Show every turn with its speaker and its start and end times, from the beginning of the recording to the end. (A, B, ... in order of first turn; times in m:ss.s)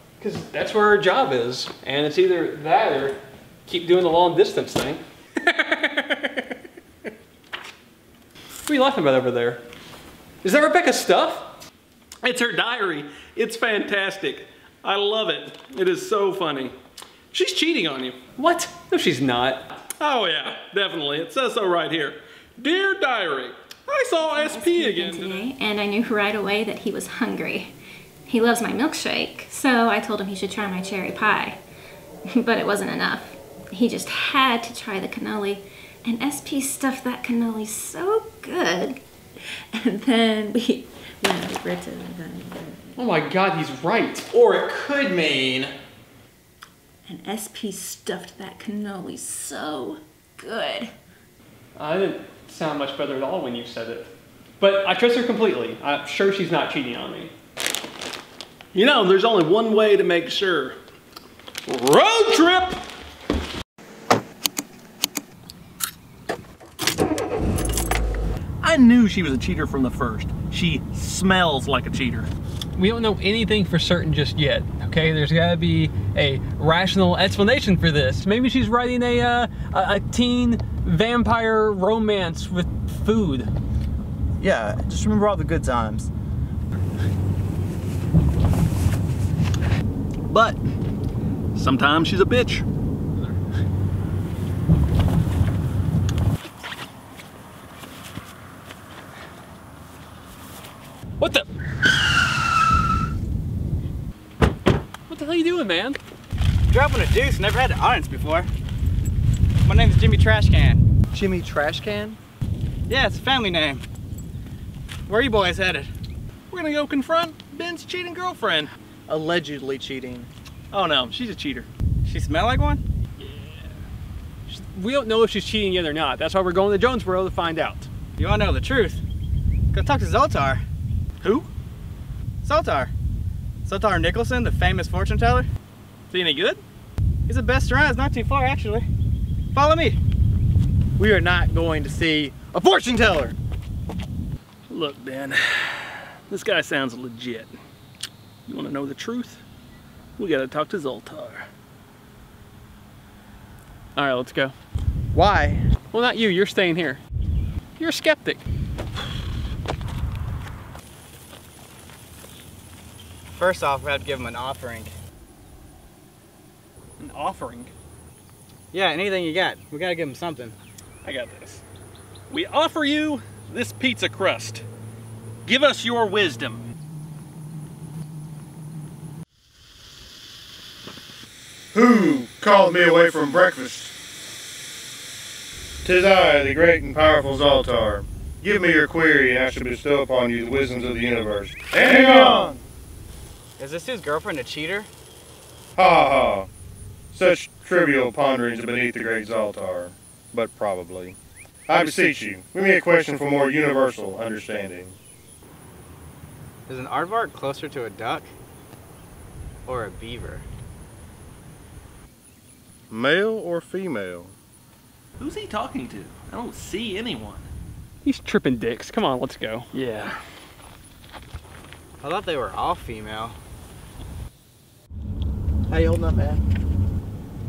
0:00.2-0:05.0 A
0:05.6-0:06.3 A
0:08.6-0:09.6 A
0:10.4-0:11.5 A
0:12.2-0:16.7 B
0:17.3-0:18.2 B
0:18.3-0:19.7 A
0:20.0-0:25.4 B
0:24.3-0:27.7 C
0:28.3-0:31.6 C
0:32.3-0:39.0 C
0:39.7-0:43.0 C
0:43.0-0:44.3 A
0:47.0-0:50.9 C
0:51.8-0:57.3 A
0:58.7-1:00.8 B
1:01.7-1:02.8 B
1:08.6-1:12.3 B
1:12.8-1:23.5 A
1:24.4-1:26.1 D
1:30.3-1:30.6 B
1:31.5-1:32.6 B
1:45.1-1:46.0 A
1:46.7-1:48.5 E
1:49.6-1:50.8 E
1:51.6-1:52.1 A
1:52.9-1:53.8 E
1:55.1-1:55.9 E
1:56.5-1:58.7 B
2:00.7-2:01.7 B
2:02.0-2:02.8 E
2:04.5-2:07.9 A
2:08.2-2:09.0 E
2:09.7-2:10.6 E
2:12.4-2:12.9 E
2:13.6-2:15.5 E
2:16.1-2:16.6 B
2:17.3-2:18.9 E
2:19.5-2:20.0 E
2:21.0-2:23.3 D
2:24.7-2:27.5 B
2:28.5-2:29.4 B
2:30.2-2:31.5 B
2:33.9-2:34.5 A
2:35.1-2:35.6 D
2:35.9-2:37.0 A
2:37.8-2:38.4 A
2:43.3-2:44.9 E
2:47.0-2:47.7 B
2:48.7-2:50.6 E
2:51.0-2:51.6 B
2:52.3-2:54.6 B
2:55.4-2:56.7 B
3:01.7-3:03.9 F
3:05.8-3:12.6 F
3:13.6-3:14.9 E
3:15.8-3:16.5 F
3:17.1-3:21.2 F
3:21.7-3:25.0 F
3:26.7-3:28.3 E
3:29.6-3:30.4 E
3:32.9-3:34.3 F
3:35.2-3:37.5 B
3:38.0-3:39.7 A
3:39.8-3:40.1 B
3:42.0-3:43.3 E
3:45.7-3:46.4 D